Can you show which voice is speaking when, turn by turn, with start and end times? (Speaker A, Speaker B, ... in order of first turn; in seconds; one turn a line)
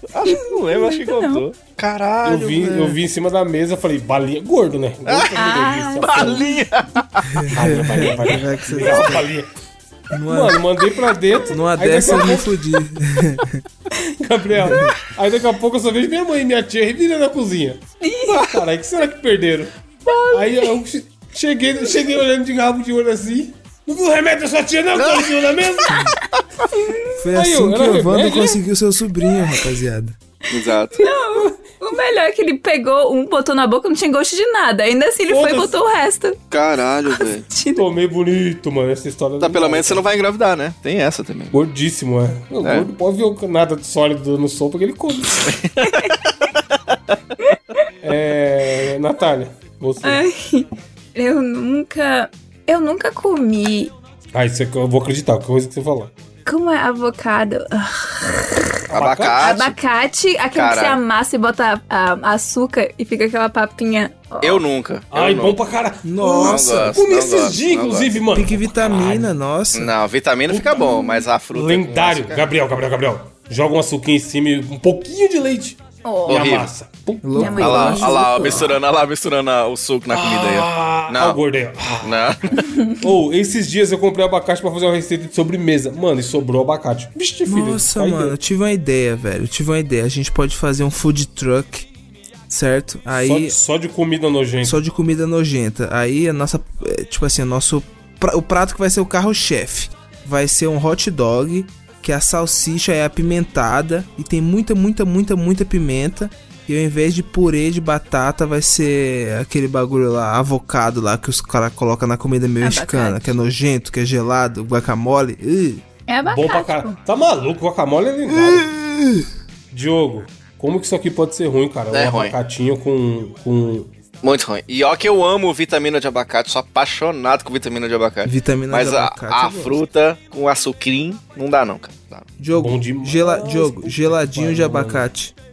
Speaker A: 0.1-2.9
Speaker B: 0.3-1.4
Speaker C: 2.2-6.5
Speaker A: 5.1-5.3
Speaker B: 5.4-6.6
Speaker A: 6.0-8.2
Speaker D: 7.3-9.3
Speaker C: 7.5-9.5
Speaker D: 10.1-10.6
Speaker C: 10.3-12.7
Speaker D: 11.5-13.6
Speaker C: 14.2-19.7
Speaker D: 14.6-14.9
Speaker B: 18.0-18.4
Speaker B: 20.1-20.7
Speaker C: 20.3-26.1
Speaker A: 25.0-25.3
Speaker D: 25.9-26.2
Speaker B: 26.7-27.1
Speaker D: 27.2-30.2
Speaker C: 27.4-28.6
Speaker A: 30.5-31.1
Speaker B: 31.0-36.4
Speaker C: 35.3-35.8
Speaker A: 36.5-37.5
Speaker B: 37.1-37.9
Speaker C: 37.8-40.0
Speaker A: 39.4-41.5
Speaker C: 41.5-45.5
Speaker A: 42.6-42.9
Speaker A: 45.5-46.3
Speaker C: 48.0-50.2
Speaker B: 50.0-53.9
Speaker C: 54.3-56.1
Speaker B: 56.5-58.6
Speaker C: 58.9-59.5
Speaker A: 58.9-59.8
Speaker B: 59.4-64.6
Speaker A: 60.5-61.0
Speaker A: 64.4-65.6
Speaker C: 65.1-69.3
Speaker D: 66.0-67.0
Speaker A: 66.3-68.2
Speaker D: 68.3-69.9
Speaker A: 69.7-72.5
Speaker C: 70.5-78.6
Speaker B: 76.0-76.5
Speaker A: 76.3-76.7
Speaker D: 77.2-78.6
Speaker B: 77.4-78.7
Speaker A: 77.6-81.4
Speaker C: 80.1-88.4
Speaker A: 82.0-82.7
Speaker D: 87.5-91.9
Speaker D: 92.5-93.6
Speaker C: 93.1-94.8
Speaker D: 94.6-115.8
Speaker B: 112.6-113.3
Speaker B: 116.1-117.0
Speaker C: 116.2-118.7
Speaker D: 118.3-119.3
Speaker C: 119.7-123.9
Speaker A: 121.9-122.3
Speaker A: 124.2-132.3
Speaker D: 128.2-129.8
Speaker D: 132.4-135.3
Speaker C: 132.6-135.1